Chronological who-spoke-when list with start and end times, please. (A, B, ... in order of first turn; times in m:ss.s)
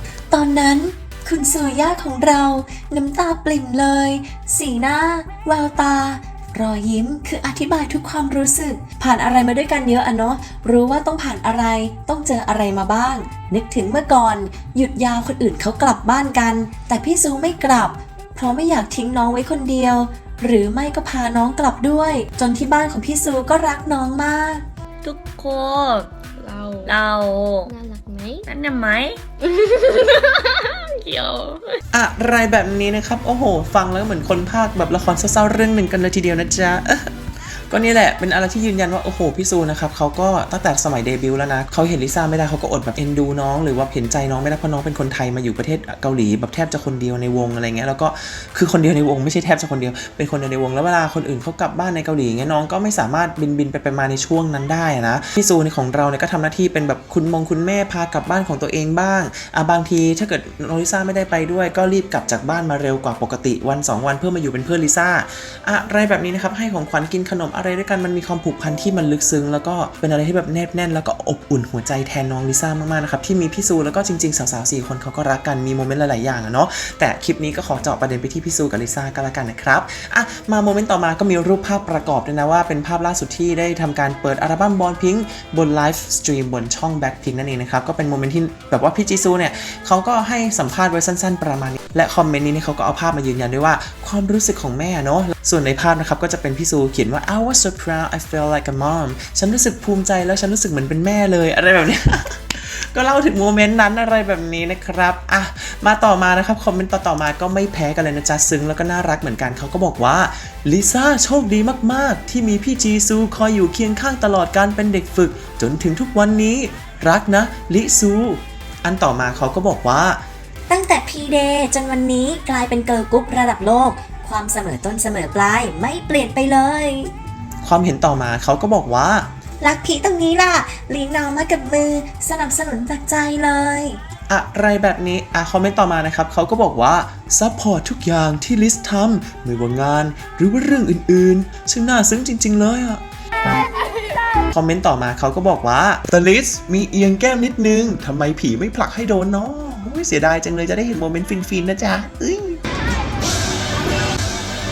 0:00.3-0:24.6 A
0:25.0-0:26.2 B
0:26.3-0:27.1 C
0:26.9-0:27.7 B
0:27.7-0:28.5 C
0:28.5-0:29.2 B
0:29.4-0:30.7 C
0:30.7-0:31.8 B
0:31.9-2:00.2 D
2:00.7-2:07.1 A
2:07.6-2:09.3 D
2:09.6-2:14.0 A
2:14.3-2:23.0 D
2:24.5-2:32.6 D